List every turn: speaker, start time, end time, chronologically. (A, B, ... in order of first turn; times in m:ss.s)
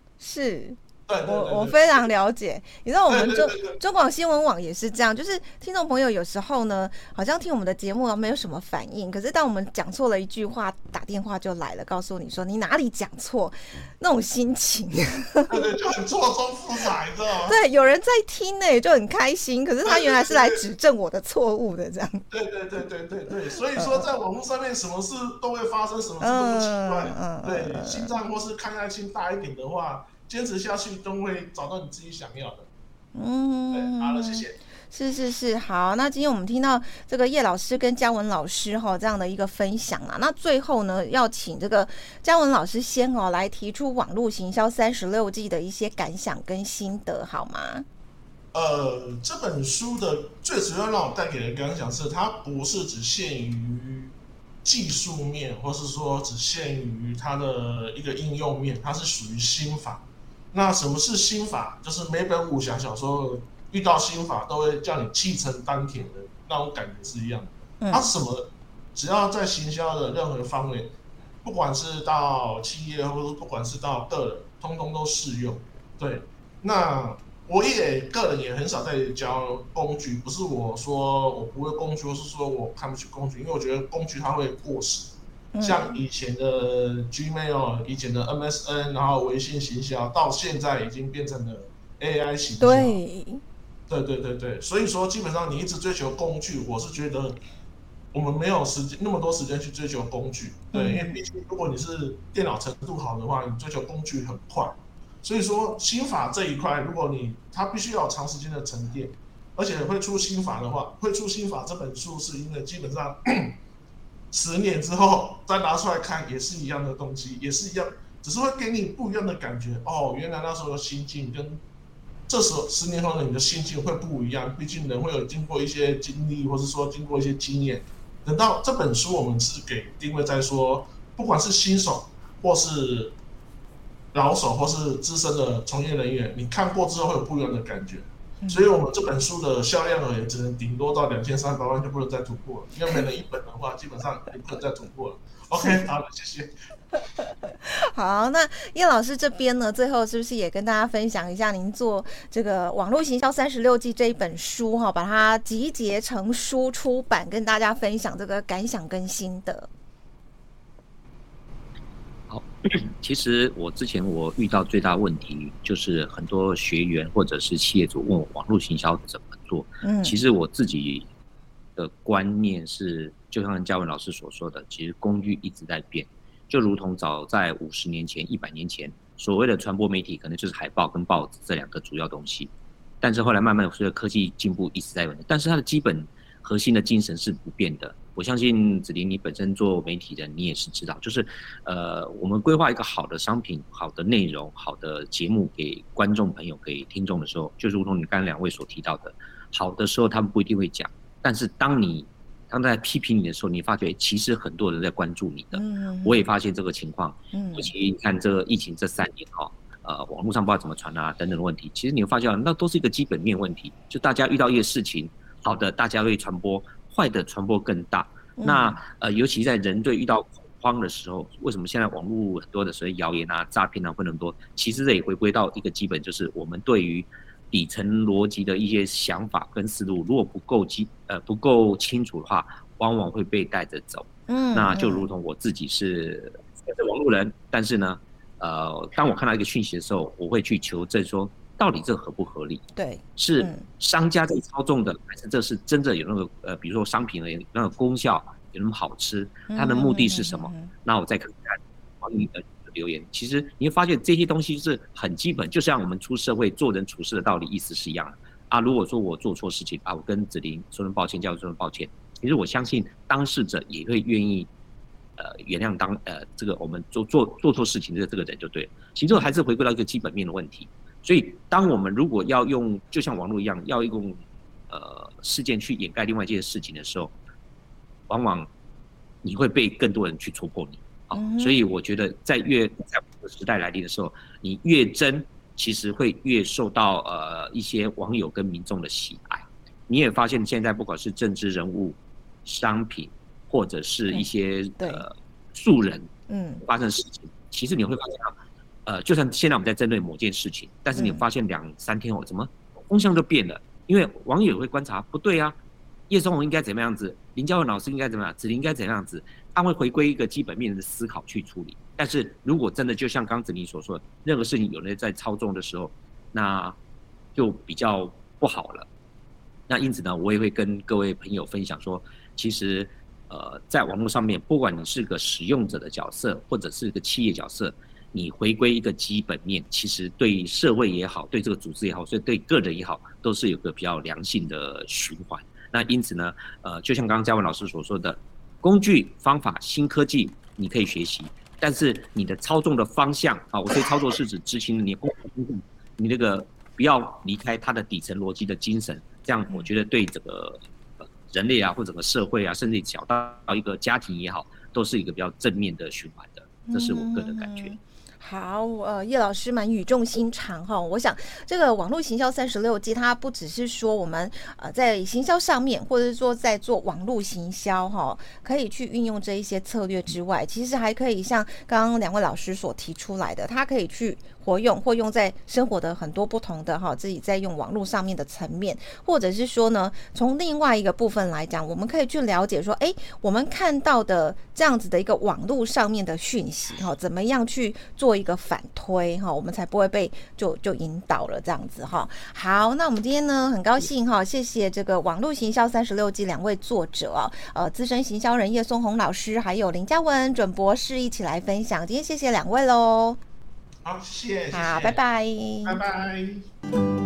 0:00.2-0:15.6 A
0:01.1-0:02.1 B
0:03.1-0:03.8 B
0:15.5-0:17.6 B
0:17.5-0:22.2 A
0:19.8-0:20.6 B
0:22.3-0:32.7 B
0:23.7-0:24.0 A
0:26.2-0:28.1 A
0:33.1-0:47.8 A
0:33.7-0:34.6 B
0:48.5-0:54.1 B
0:54.6-1:33.0 B
1:07.8-1:08.1 A
1:25.5-1:26.0 A
1:32.6-1:33.4 A
1:33.9-1:37.4 B
1:38.1-1:53.6 B
1:40.7-1:41.2 A
1:54.3-2:01.6 B
2:02.3-2:13.1 B
2:14.1-2:26.5 B
2:18.4-2:18.7 A
2:27.2-2:39.7 A
2:42.3-2:51.1 C
2:49.8-2:50.2 A
2:51.8-4:02.6 C
3:25.5-3:26.2 A
3:27.3-3:27.7 A
3:38.4-3:38.8 A
3:54.3-3:55.1 A
4:02.8-4:03.6 A
4:03.2-4:24.5 C
4:09.5-4:10.7 A
4:25.2-4:37.1 C
4:38.1-4:38.5 C
4:39.2-4:56.1 C
4:41.1-4:41.6 A
4:54.8-4:55.0 A
4:56.3-4:56.6 A
4:56.6-4:58.3 C
4:58.8-5:05.6 C
5:00.9-5:01.2 A
5:06.1-5:16.8 C
5:17.3-5:18.9 C
5:19.7-5:57.7 C
5:56.7-6:43.2 A
6:43.8-6:45.0 B
6:44.5-6:45.8 A
6:45.6-6:46.5 B